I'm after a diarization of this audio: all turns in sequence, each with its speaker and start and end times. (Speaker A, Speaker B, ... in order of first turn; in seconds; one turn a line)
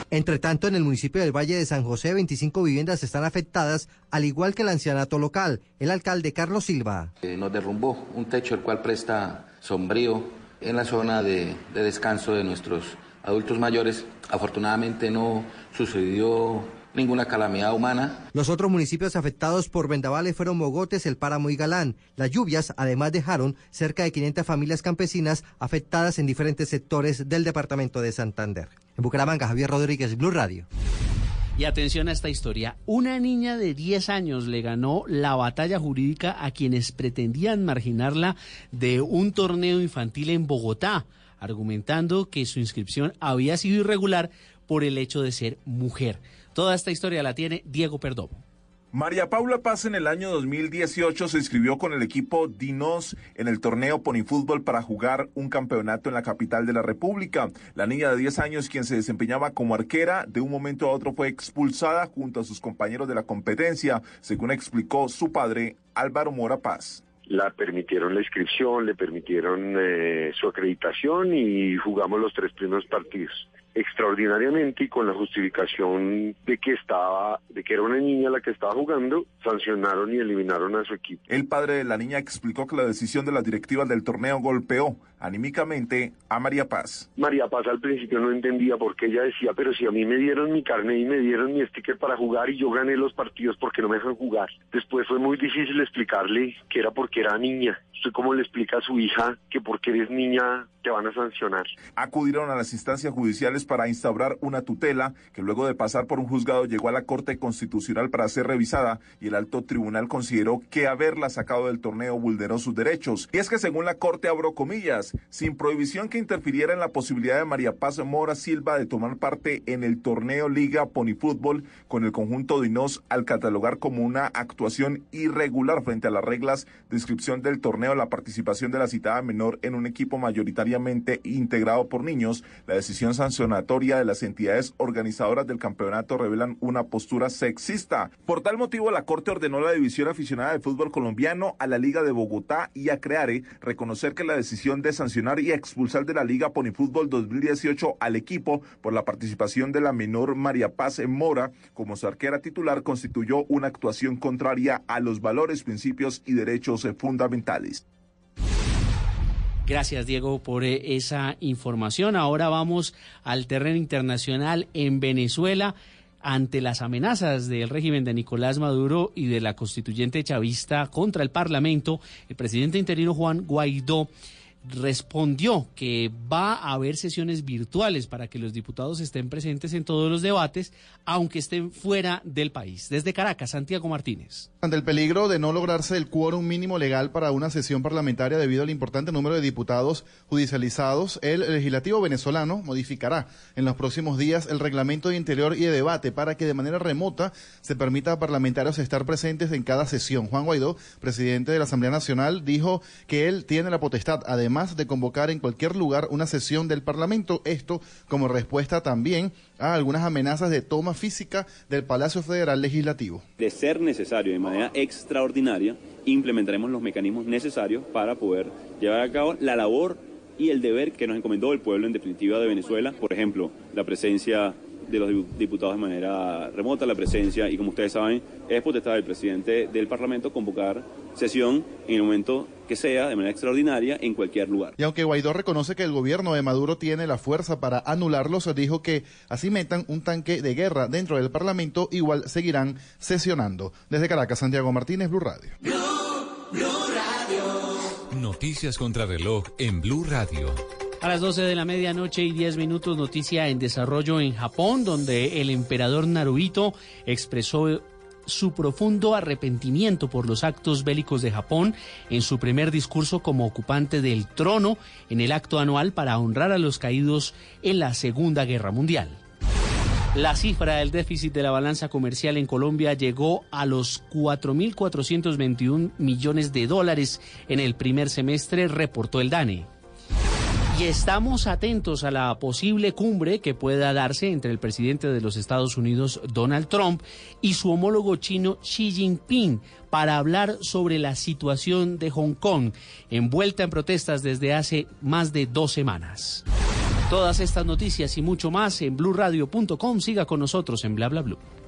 Speaker A: 0.1-7.1
Speaker B: 7.2-18.3
Speaker A: 18.3-30.6
Speaker C: 31.6-48.4
Speaker D: 48.9-67.1
Speaker E: 67.2-81.2
Speaker D: 81.3-87.1
Speaker E: 87.2-101.7
Speaker D: 102.0-157.8
Speaker C: 159.7-174.1
Speaker C: 174.6-184.5
Speaker F: 184.6-213.2
Speaker G: 213.4-234.8
Speaker F: 234.8-245.6
Speaker H: 248.1-250.6
Speaker C: 251.0-269.2
Speaker C: 270.1-279.7
Speaker C: 280.7-296.4
Speaker C: 297.1-301.4